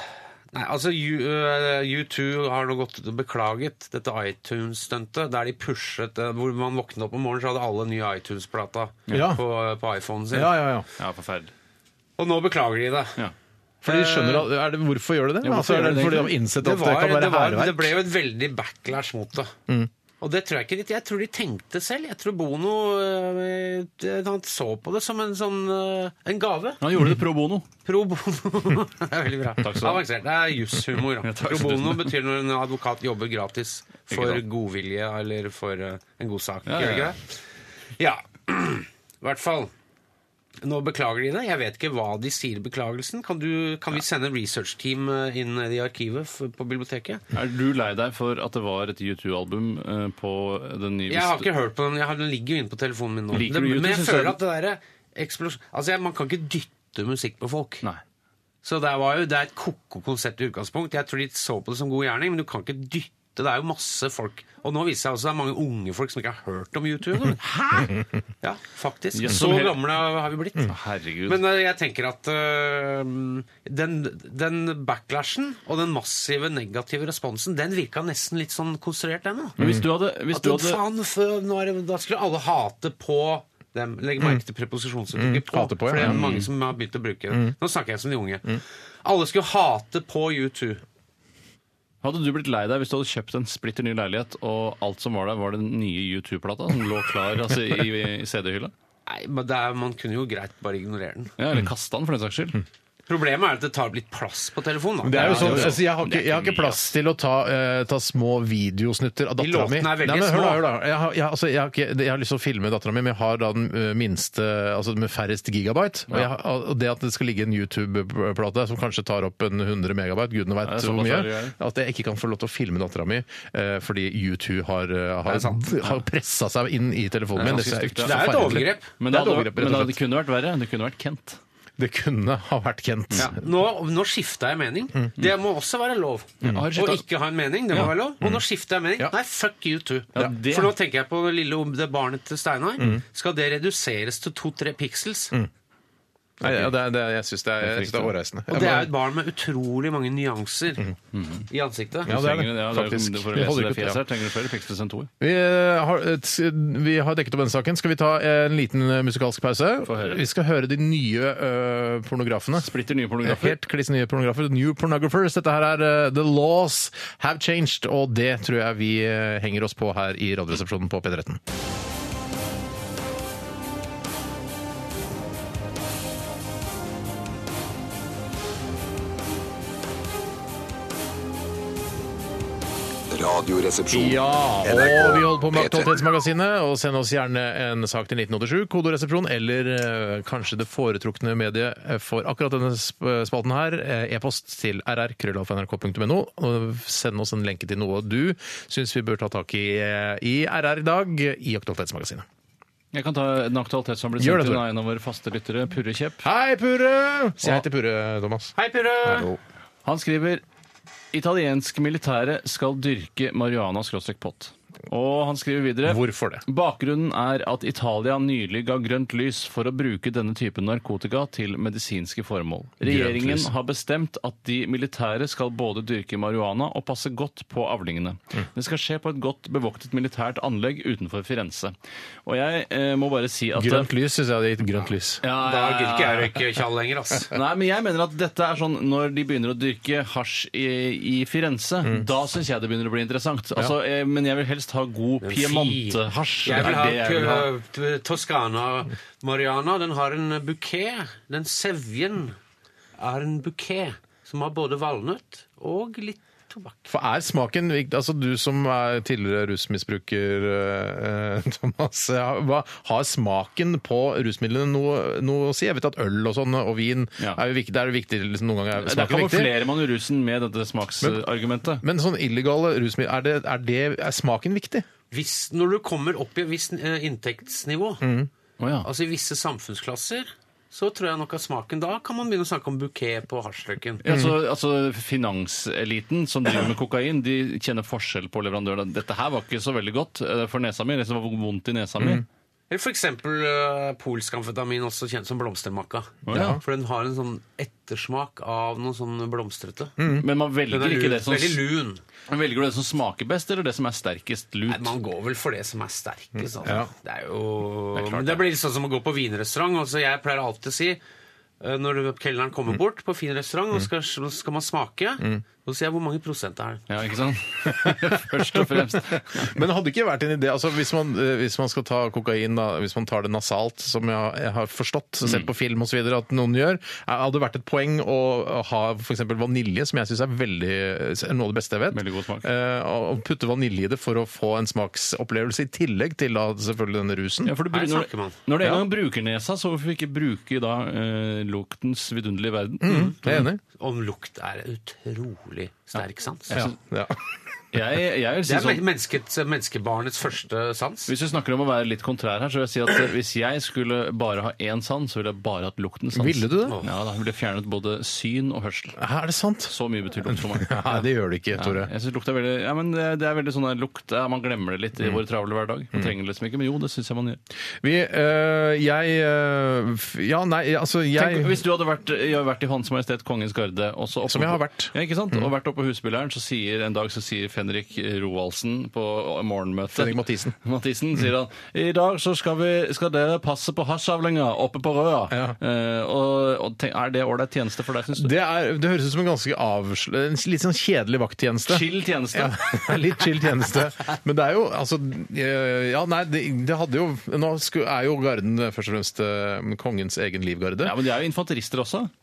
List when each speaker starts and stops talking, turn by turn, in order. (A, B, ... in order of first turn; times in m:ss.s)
0:00.5-0:10.6 A
0:09.1-0:09.4 B
0:10.3-0:10.9 B
0:11.0-0:11.5 C
0:12.2-0:13.2 A
0:13.8-0:17.9 B
0:13.8-0:14.5 A
0:15.4-0:16.3 C
0:16.6-0:19.5 A
0:20.2-0:26.8 A
0:26.8-0:27.7 C
0:27.8-0:37.4 A
0:29.6-0:30.0 C
0:31.2-0:32.1 C
0:34.1-0:34.4 C
0:36.7-0:37.1 C
0:38.0-0:39.7 A
0:40.6-0:47.2 A
0:47.3-0:51.5 C
0:51.1-0:57.8 A
0:53.3-0:54.4 C
0:58.6-1:07.9 A
1:08.4-1:10.7 A
1:09.1-1:10.0 C
1:10.7-1:11.4 C
1:11.2-1:19.6 A
1:19.6-1:19.9 B
1:19.6-1:20.8 C
1:20.3-1:30.8 A
1:25.1-1:26.4 B
1:26.0-1:26.5 C
1:32.0-1:38.7 C
1:39.0-1:41.3 A
1:41.4-1:42.6 C
1:43.1-1:45.8 A
1:45.0-2:10.0 B
1:45.1-1:46.9 C
1:49.4-1:50.6 A
2:00.6-2:01.5 C
2:05.2-2:05.7 A
2:07.3-2:11.4 C
2:08.0-2:08.9 A
2:11.8-2:13.4 B
2:13.2-2:25.3 A
2:16.4-2:17.0 C
2:20.1-2:20.7 C
2:26.4-2:28.9 B
2:26.4-2:26.7 C
2:27.6-2:28.1 C
2:28.5-2:30.9 A
2:31.1-2:31.5 C
2:31.5-2:32.1 A
2:32.0-2:35.1 C
2:32.1-2:34.0 B
2:35.2-2:42.7 B
2:39.8-2:40.2 C
2:42.6-2:43.6 C
2:43.2-2:51.4 B
3:03.1-3:05.9 D
3:03.9-3:22.2 B
3:22.9-3:26.2 C
3:24.2-3:24.6 B
3:26.2-3:29.4 B
3:28.6-3:29.3 A
3:29.8-3:30.4 C
3:31.1-3:51.7 C
3:35.8-3:36.4 B
3:42.8-3:43.5 B
3:52.2-3:53.9 C
3:53.6-3:55.2 B
3:55.2-3:56.5 C
3:55.4-3:57.3 A
3:57.3-4:07.5 C
4:05.2-4:12.4 A
4:13.0-4:16.9 A
4:16.9-4:29.5 B
4:28.8-4:31.8 C
4:31.8-4:34.8 B
4:35.1-4:38.0 A
4:38.0-4:38.3 B
4:38.6-4:38.9 C
4:38.8-4:44.0 A
4:44.0-4:52.2 C
4:44.1-4:44.3 B
4:52.0-4:52.2 B
4:52.7-5:00.0 A
4:56.2-4:56.6 C
4:56.3-4:56.6 B
5:00.0-5:00.3 B
5:00.1-5:01.6 C
5:00.7-5:02.0 A
5:02.3-5:04.9 C
5:04.7-5:11.0 A
5:06.6-5:06.9 B
5:07.9-5:08.4 C
5:11.6-5:16.8 A
5:16.9-5:19.6 C
5:17.6-5:37.5 B
5:31.9-5:32.5 C
5:37.4-5:43.4 C
5:37.7-5:38.4 A
5:42.8-5:43.6 B
5:42.8-5:46.6 A
5:46.5-5:46.7 C
5:46.5-5:47.2 B
5:47.7-5:48.8 C
5:48.4-5:51.1 A
5:51.1-5:59.0 C
5:56.1-5:56.8 B
5:59.0-5:59.7 B
5:59.7-6:01.0 C
6:00.2-6:01.9 B
6:01.5-6:07.4 C
6:07.8-6:11.6 B
6:11.1-6:28.3 C
6:14.3-6:15.4 B
6:19.9-6:20.5 B
6:25.3-6:25.6 B
6:28.1-6:40.9 B
6:31.7-6:33.1 C
6:40.8-6:42.1 C